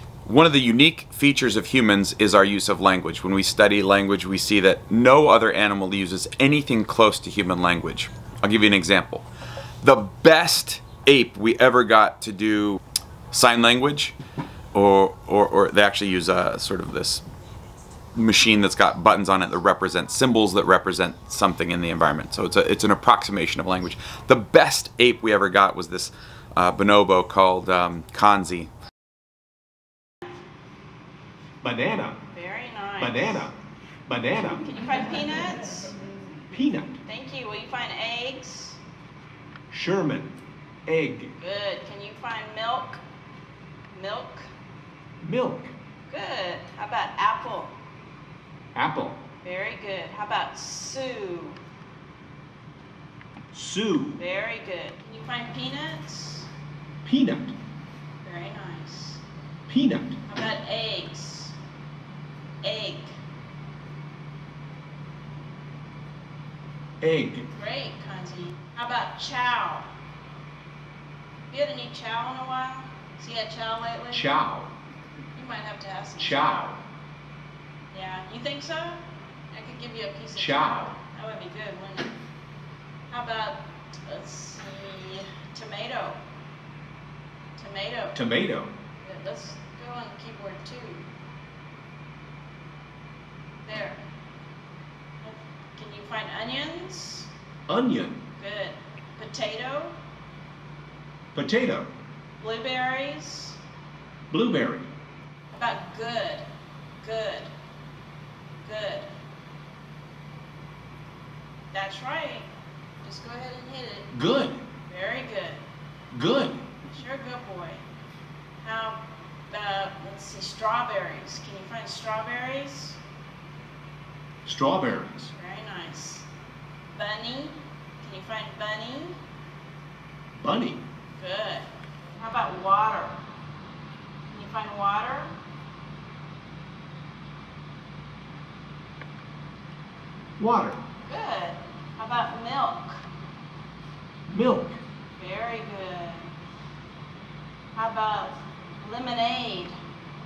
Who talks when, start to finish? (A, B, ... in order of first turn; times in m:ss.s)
0:00.2-0:09.2 A
0:09.8-0:12.8 A
0:13.3-0:14.1 A
0:14.7-0:17.2 A
0:18.1-0:28.7 A
0:31.6-0:32.2 B
0:32.3-0:33.5 C
0:33.0-0:33.6 B
0:34.1-0:34.7 B
0:34.6-0:35.9 C
0:36.5-0:37.0 B
0:37.0-0:38.8 C
0:39.7-0:40.3 B
0:40.8-0:41.3 B
0:41.4-0:43.0 C
0:43.9-0:44.5 C
0:45.2-0:45.7 B
0:46.1-0:47.7 C
0:48.7-0:49.2 B
0:49.4-0:51.6 C
0:53.5-0:54.2 B
0:54.2-0:56.5 C
0:57.0-0:57.5 B
0:58.2-0:59.2 C
0:59.7-1:00.2 B
1:00.3-1:01.5 C
1:02.6-1:03.1 C
1:07.0-1:07.5 B
1:07.5-1:09.9 C
1:11.5-1:14.3 C
1:14.1-1:14.7 B
1:15.3-1:16.8 C
1:16.2-1:16.8 B
1:17.9-1:22.1 C
1:20.4-1:20.9 B
1:23.1-1:26.2 C
1:27.6-1:28.2 C
1:28.1-1:28.7 B
1:29.0-1:31.0 C
1:33.6-1:34.0 C
1:35.2-1:37.3 C
1:37.7-1:38.2 B
1:38.4-1:39.9 C
1:41.3-1:41.9 B
1:42.4-1:43.6 C
1:44.3-1:44.9 B
1:45.5-1:46.4 C
1:47.0-1:47.5 C
1:48.6-1:49.1 C
1:51.7-1:52.5 C
1:53.0-1:54.1 C
1:54.1-1:54.6 B
1:54.9-1:55.6 C
1:56.1-1:56.7 B
1:56.9-1:57.8 C
1:58.6-2:03.0 C
2:04.4-2:05.3 B
2:05.3-2:06.3 C
2:06.9-2:09.2 C
2:10.4-2:10.8 B
2:11.2-2:11.6 C
2:12.2-2:13.2 C
2:14.3-2:15.3 C
2:20.4-2:20.8 B
2:21.0-2:23.0 C
2:24.3-2:24.8 B
2:25.2-2:26.3 C
2:27.7-2:29.7 C